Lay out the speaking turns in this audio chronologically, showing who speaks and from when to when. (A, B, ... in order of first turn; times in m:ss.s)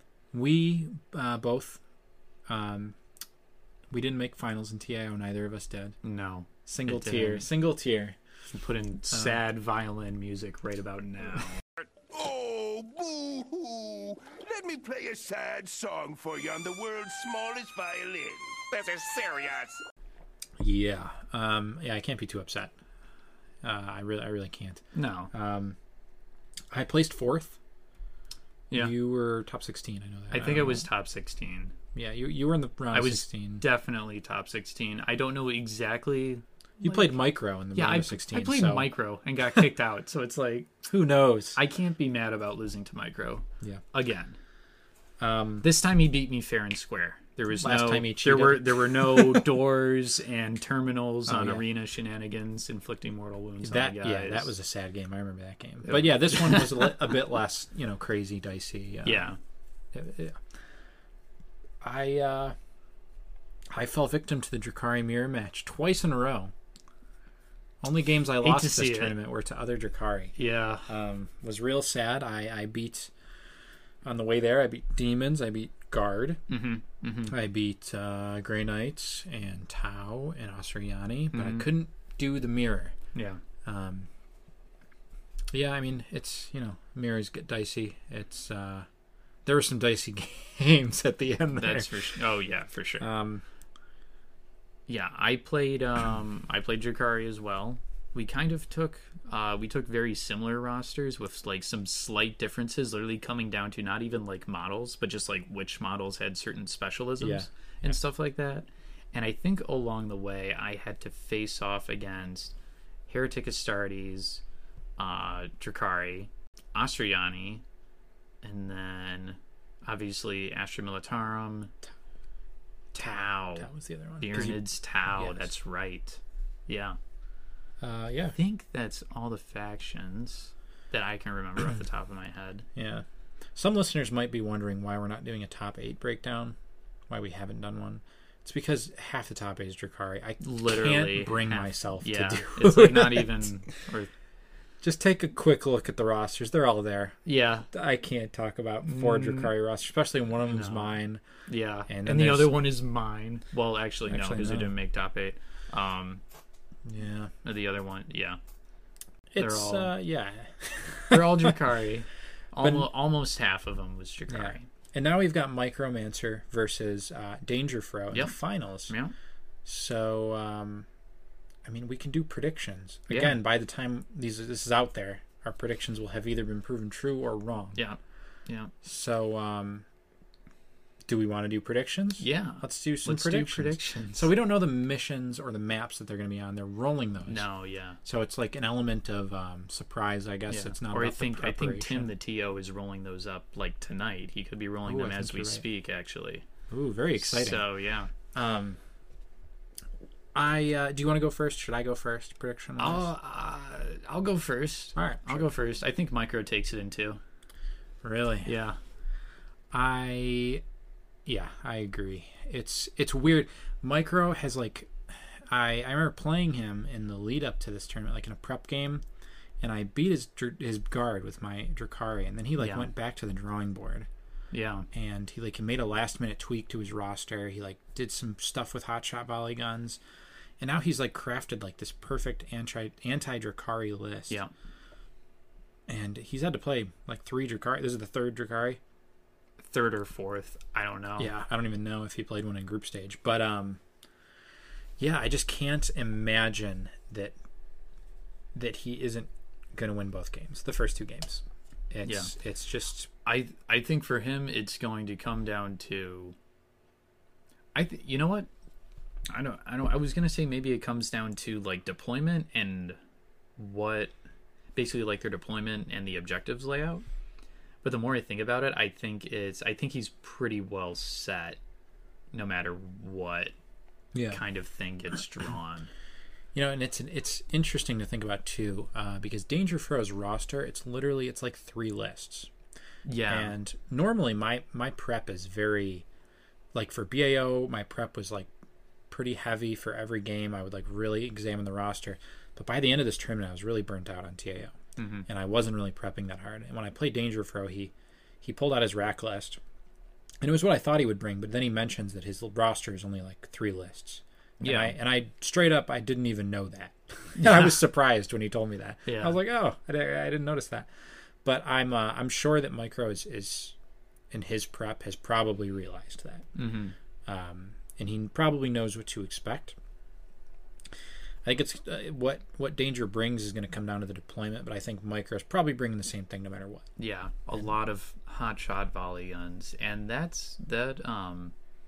0:00.3-0:01.8 A
0:02.5-0:03.0 A
0:03.9-0:06.0 A
0:06.0-0:07.5 B
0:06.6-0:08.2 A
0:08.5-0:11.6 B
0:09.1-0:09.4 A
0:12.0-0:19.8 C
0:20.6-0:22.7 A
0:23.6-0:25.8 A
0:24.9-0:25.3 B
0:26.7-0:27.6 A
0:28.7-0:28.9 B
0:28.7-0:30.8 A
0:30.3-0:31.7 B
0:31.9-0:33.6 A
0:32.9-0:37.2 B
0:36.8-0:38.9 A
0:37.7-0:40.8 B
0:40.9-0:41.6 A
0:41.5-0:44.4 B
0:45.2-0:45.7 A
0:45.6-0:54.5 B
0:47.5-0:49.6 A
0:51.3-0:51.6 A
0:53.6-0:59.3 A
0:55.8-0:57.1 B
0:59.0-0:59.4 B
0:59.9-1:00.4 A
1:01.8-1:02.6 A
1:03.7-1:06.5 A
1:07.8-1:13.1 A
1:08.4-1:09.2 B
1:10.4-1:10.9 B
1:14.0-1:16.4 A
1:16.5-1:17.3 B
1:17.3-1:22.9 A
1:21.3-1:21.7 B
1:23.1-1:23.4 B
1:23.6-1:24.1 A
1:25.5-1:28.9 A
1:29.4-1:32.2 A
1:31.5-1:33.0 B
1:33.0-1:33.4 A
1:34.9-1:52.5 B
1:47.2-1:48.0 A
1:53.1-1:54.4 B
1:55.0-1:57.6 B
1:58.4-2:01.7 B
2:02.9-2:03.7 B
2:02.9-2:05.5 A
2:04.2-2:07.0 B
2:07.8-2:08.4 A
2:08.3-2:12.7 B
2:12.8-2:16.6 A
2:17.1-2:23.5 A
2:20.4-2:24.1 B
2:24.8-2:27.2 A
2:27.2-2:27.7 B
2:27.7-2:31.2 A
2:28.9-2:29.5 B
2:30.4-2:30.9 B
2:31.5-2:36.2 B
2:31.9-2:32.7 A
2:34.1-2:34.7 A
2:36.8-2:37.3 A
2:37.4-2:38.4 B
2:39.3-2:41.6 A
2:39.4-2:39.9 B
2:41.1-2:44.7 B
2:42.6-2:42.9 A
2:44.3-2:48.9 A
2:48.9-2:49.1 B
2:49.6-2:50.9 A
2:51.6-2:57.8 A
2:53.1-2:53.4 B
2:57.7-2:58.7 B
2:58.8-2:59.8 A
3:01.0-3:07.5 A
3:02.2-3:04.3 B
3:07.3-3:08.0 B
3:08.0-3:12.1 A
3:10.5-3:16.4 B
3:14.8-3:15.6 A
3:16.7-3:17.6 A
3:17.1-3:18.1 B
3:18.3-3:18.8 A
3:20.3-3:23.1 A
3:22.8-3:27.2 B
3:24.9-3:25.5 A
3:28.0-3:28.5 A
3:28.4-3:28.8 B
3:29.7-3:30.6 A
3:31.2-3:39.0 A
3:39.6-3:44.1 A
3:42.6-3:42.9 B
3:44.5-3:44.9 B
3:44.9-3:50.0 A
3:50.6-3:54.4 A
3:55.9-3:58.8 A
3:59.6-4:01.3 B
4:01.2-4:03.8 A
4:05.0-4:07.4 A
4:08.5-4:13.1 A
4:12.0-4:12.3 B
4:13.2-4:16.3 B
4:17.7-4:18.5 B
4:19.3-4:23.0 B
4:23.6-4:24.1 B
4:24.8-4:27.0 B
4:27.8-4:31.6 B
4:32.3-4:33.5 B
4:34.1-4:34.4 A
4:34.3-4:35.9 B
4:36.5-4:42.5 A
4:43.0-4:43.5 B
4:43.3-4:46.0 A
4:46.7-4:48.5 A
4:49.1-4:59.6 A
4:55.0-4:55.3 B
5:00.4-5:10.9 A
5:04.6-5:04.9 B
5:07.4-5:07.7 B
5:09.0-5:09.4 B
5:11.4-5:13.8 A
5:14.3-5:16.5 A
5:16.6-5:16.9 B
5:17.2-5:19.8 A
5:21.4-5:26.9 A
5:27.0-5:31.5 B